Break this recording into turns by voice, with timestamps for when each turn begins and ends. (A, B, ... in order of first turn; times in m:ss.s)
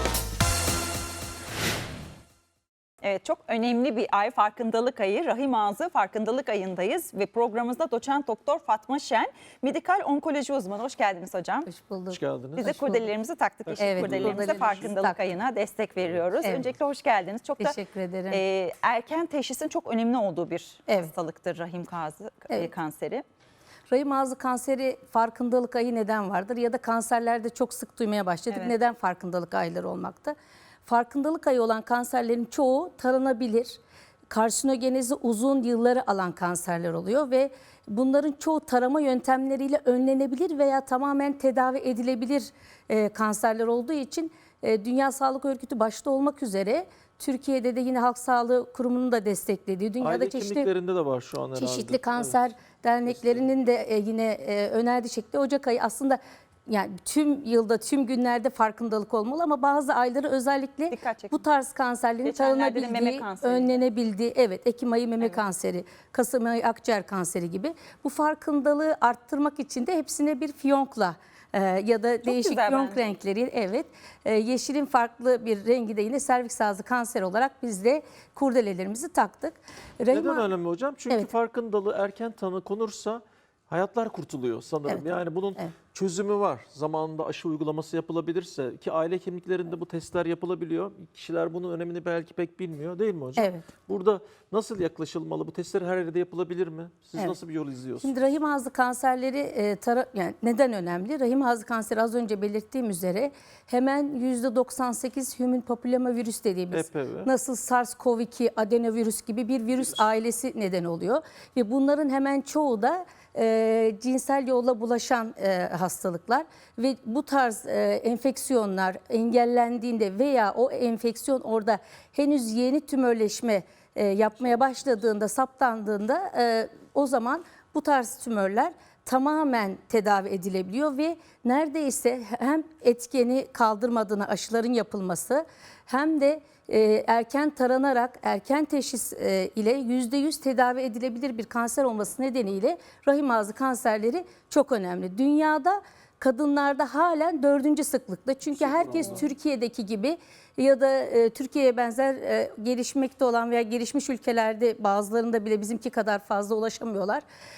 0:03.0-0:11.7 A
0:11.7-0:13.0 B
0:12.1-0:13.0 C
0:12.6-0:17.8 A
0:13.7-0:15.0 C
0:13.8-0:15.2 B
0:16.4-0:16.7 B
0:17.6-0:18.4 B
0:18.3-0:23.2 A
0:23.9-0:30.4 B
0:30.9-0:50.7 B
0:50.0-0:52.4 C
0:51.6-1:20.5 B
1:00.9-1:01.4 A
1:02.2-1:03.8 A
1:12.2-1:13.0 A
1:20.1-1:38.2 C
1:24.9-1:25.8 B
1:33.4-1:33.7 B
1:38.0-2:37.2 B
1:46.7-1:47.3 C
2:28.5-2:29.3 C